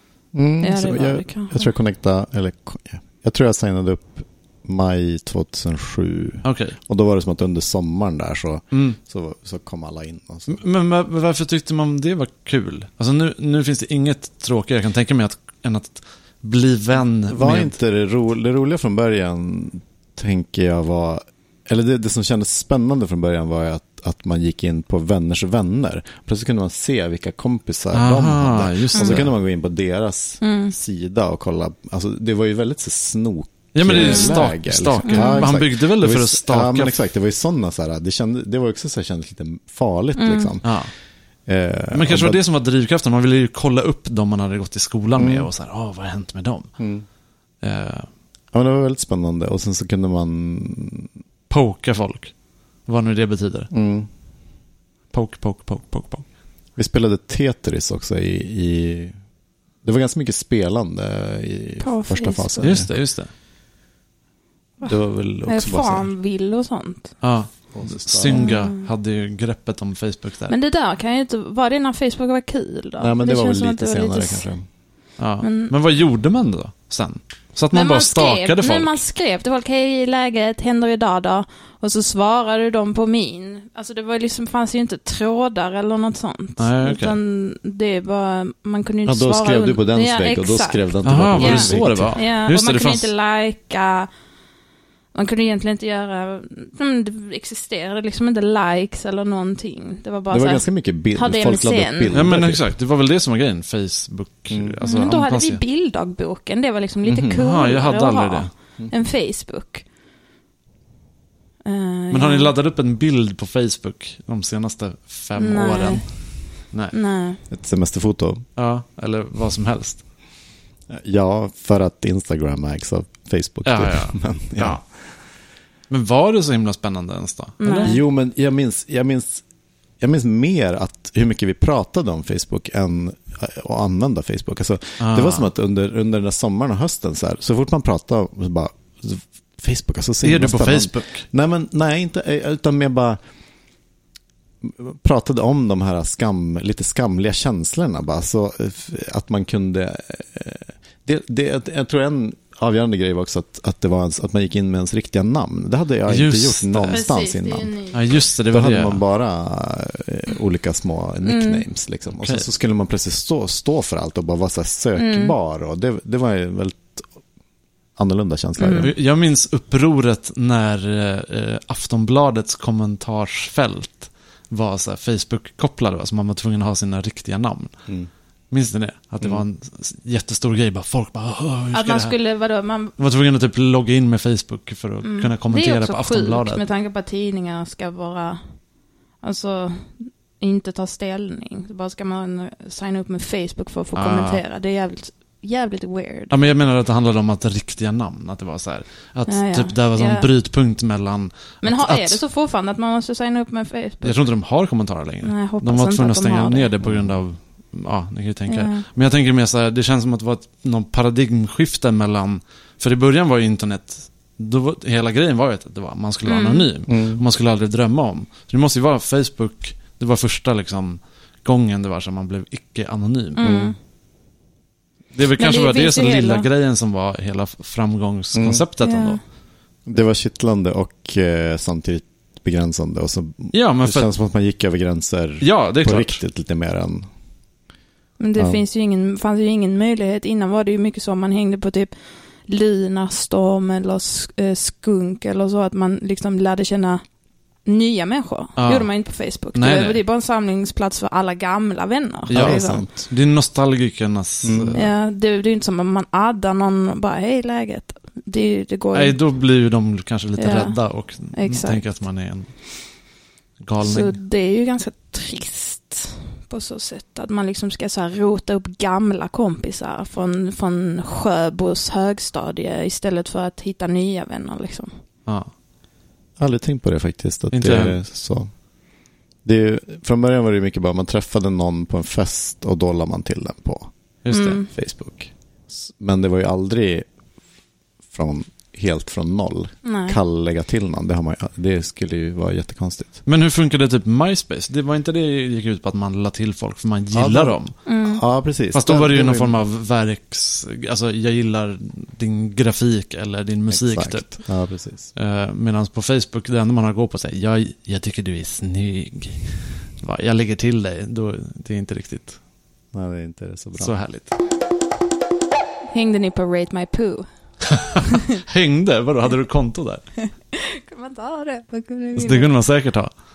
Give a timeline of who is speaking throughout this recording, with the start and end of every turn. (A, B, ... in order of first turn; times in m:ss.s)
0:00.3-0:10.6 A
0:00.6-0:01.7 B
0:06.4-0:06.8 C
0:08.7-0:09.0 C
0:10.5-0:17.8 C
0:17.3-0:40.7 A
0:27.9-0:29.3 C
0:29.0-0:29.2 B
0:30.4-0:30.7 B
0:33.7-0:36.9 C
0:33.9-0:34.4 B
0:35.0-0:35.5 B
0:40.2-0:40.5 B
0:40.6-0:40.9 C
0:41.4-0:42.4 A
0:41.9-0:46.7 C
0:45.2-0:45.5 A
0:46.8-0:47.0 A
0:47.6-0:48.1 C
0:48.5-0:51.1 A
0:51.5-0:52.3 C
0:52.9-0:53.7 C
0:53.7-0:54.1 A
0:55.1-0:56.2 C
0:56.8-0:59.1 A
0:59.8-1:02.9 A
1:01.8-1:02.8 B
1:02.6-1:03.3 C
1:04.8-1:06.1 A
1:05.4-1:07.1 B
1:07.2-1:10.6 C
1:07.7-1:08.5 A
1:08.2-1:08.9 B
1:10.5-1:14.4 B
1:13.0-1:14.6 A
1:15.2-1:19.0 C
1:15.4-1:15.7 B
1:17.7-1:34.1 B
1:26.6-1:27.2 C
1:29.1-1:32.2 A
1:31.0-1:33.1 C
1:35.1-1:42.2 B
1:40.3-1:42.7 A
1:42.1-1:45.6 C
1:44.5-1:44.8 A
1:44.8-1:49.8 B
1:47.0-1:47.4 A
1:47.4-1:48.5 C
1:51.6-1:52.5 B
1:52.1-1:56.0 C
1:55.3-1:56.0 B
1:56.9-1:57.4 B
1:57.5-1:58.4 A
1:58.6-2:00.0 C
2:00.9-2:04.8 A
2:03.6-2:04.8 C
2:05.9-2:08.0 C
2:07.6-2:08.0 B
2:07.8-2:09.4 A
2:10.0-2:23.2 A
2:15.0-2:15.5 C
2:20.2-2:21.2 C
2:24.6-2:37.8 A
2:36.1-2:37.0 C
2:36.9-2:38.2 B
2:37.9-2:39.0 C
2:38.5-2:47.1 A
2:41.2-2:41.6 B
2:42.2-2:42.5 C
2:45.0-2:45.3 B
2:48.0-2:48.9 A
2:48.6-2:48.9 B
2:48.8-2:57.7 C
2:58.5-3:02.2 C
3:01.7-3:02.9 B
3:03.0-3:06.6 C
3:05.0-3:08.4 B
3:09.2-3:16.5 B
3:13.9-3:14.4 C
3:16.3-3:22.2 C
3:19.3-3:20.3 B
3:21.6-3:24.2 B
3:24.0-3:43.4 C
3:25.2-3:26.7 B
3:26.8-3:27.1 A
3:28.5-3:28.8 B
3:36.2-3:36.7 B
3:36.9-3:37.2 A
3:43.3-3:43.8 B
3:43.4-3:43.8 A
3:45.1-3:49.2 C
3:45.2-3:46.5 B
3:48.3-3:48.6 A
3:48.8-3:49.2 B
3:49.8-3:57.0 A
3:53.5-3:54.1 C
3:55.4-3:56.2 C
3:58.2-4:01.9 B
3:58.4-3:58.6 A
4:02.5-4:07.0 B
4:07.6-4:12.8 B
4:08.6-4:08.9 C
4:09.5-4:10.0 C
4:12.3-4:14.9 C
4:12.3-4:13.0 A
4:14.4-4:14.8 A
4:14.7-4:19.2 B
4:18.9-4:22.5 C
4:20.4-4:21.8 B
4:23.6-4:24.2 C
4:23.8-4:34.9 B
4:36.4-4:38.5 A
4:37.5-4:38.0 C
4:39.4-4:43.9 A
4:44.2-4:44.6 C
4:44.3-4:44.7 B
4:44.7-4:47.0 A
4:48.1-4:53.2 A
4:49.8-4:50.2 B
4:53.2-4:57.8 C
4:57.1-4:59.6 A
4:57.8-4:58.2 B
4:58.7-5:04.6 C
5:03.7-5:05.1 A
5:05.1-5:12.4 C
5:12.9-5:13.9 A
5:13.8-5:14.4 C
5:15.9-5:17.2 B
5:17.8-5:20.0 C
5:20.2-5:22.5 B
5:22.2-5:23.1 C